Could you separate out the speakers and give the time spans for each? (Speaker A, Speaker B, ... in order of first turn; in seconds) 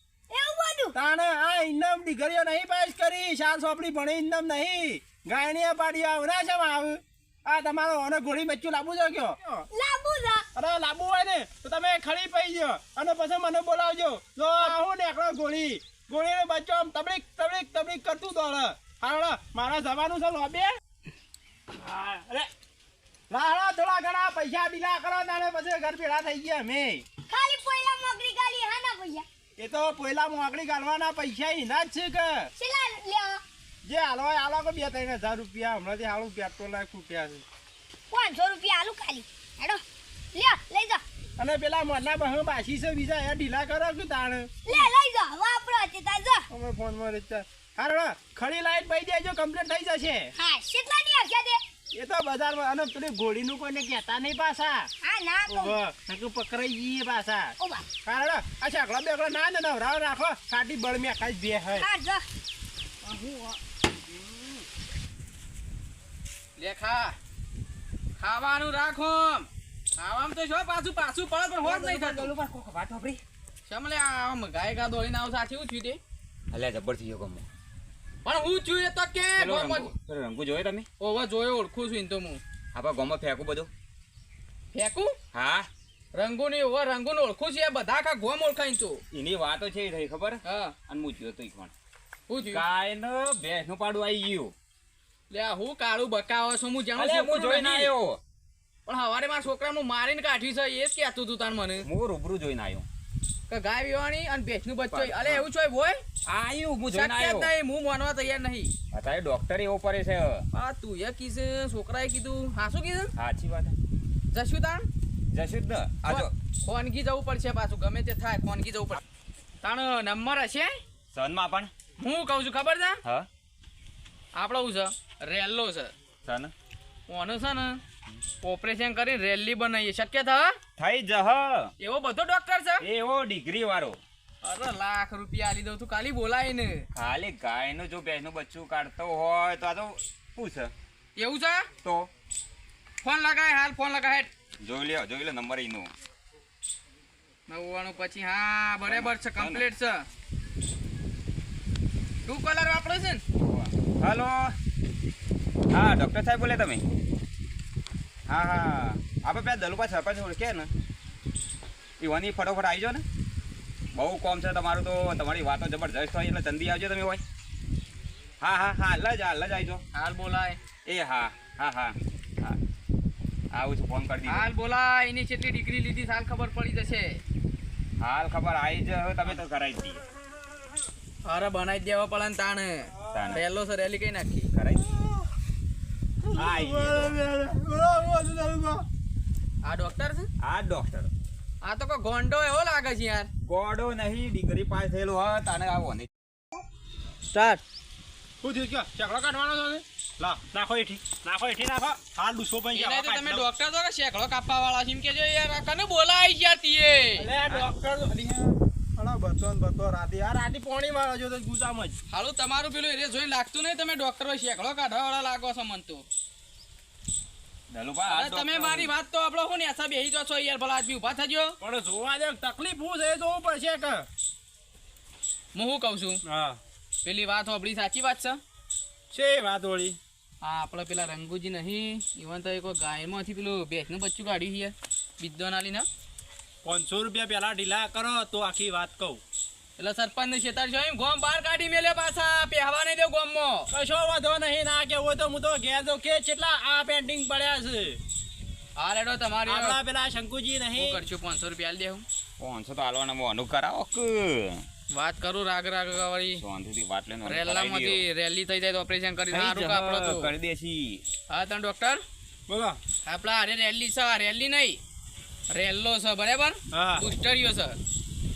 Speaker A: 0.3-0.9, 9.7-10.4, 27.3-29.3, 32.6-33.4, 38.1-39.8, 40.3-41.0, 44.6-46.5, 50.4-51.6, 55.0-55.8, 57.6-57.9, 61.8-62.2
Speaker B: 0.9-9.7, 10.6-20.7, 21.8-22.5, 23.3-27.1, 29.6-32.5, 33.9-37.4, 41.4-44.9, 46.5-50.3, 51.9-54.9, 55.5-61.9, 186.2-188.8, 198.4-203.5, 207.2-211.9, 221.6-224.1, 226.3-226.6, 229.1-230.0, 236.6-239.2, 243.7-248.0, 249.5-251.0, 262.5-262.8, 266.7-267.1
Speaker C: 63.1-63.5, 66.6-67.2, 68.2-72.3, 73.7-76.0, 78.2-79.9, 81.0-82.4, 84.7-85.2, 86.1-89.0, 90.4-90.8, 92.3-92.7, 95.3-97.9, 98.9-101.9, 103.5-106.0, 106.9-108.7, 110.5-113.1, 114.3-114.9, 116.0-119.0, 119.6-120.8, 122.0-123.0, 124.3-125.9, 127.1-127.8, 128.4-130.6, 131.8-132.8, 134.4-136.9, 141.2-141.7, 143.0-144.3, 147.5-150.1, 152.3-153.2, 169.9-170.6, 174.3-177.2, 181.2-184.5, 189.6-190.3, 191.6-193.3, 197.3-197.6, 202.7-207.3, 212.1-216.1, 218.1-221.6, 225.5-226.2, 227.0-228.4, 230.4-235.9, 239.8-243.7, 248.8-249.8, 250.7-252.1, 254.9-256.4, 257.2-260.3, 261.3-262.0, 263.1-264.8, 265.5-267.8
Speaker D: 71.6-73.2, 76.5-77.5, 79.4-80.9, 82.7-83.7, 85.3-85.7, 89.1-91.7, 92.4-94.5, 97.0-98.2, 101.8-102.9, 104.9-105.5, 106.2-107.5, 108.9-110.5, 113.2-113.8, 115.3-116.3, 121.1-121.7, 126.2-126.5, 130.8-131.7, 132.8-134.0, 136.9-140.7, 141.8-142.1, 144.6-145.9, 148.8-149.7, 153.4-154.6, 155.7-156.9, 158.3-160.7, 162.0-163.1, 163.9-167.2, 168.4-169.8, 170.8-172.6, 173.5-174.5, 178.0-180.0, 183.1-183.4, 184.5-185.1, 186.3-187.2, 190.4-191.1, 193.4-196.1, 217.7-218.9, 252.4-254.7, 256.4-258.1, 259.3-261.0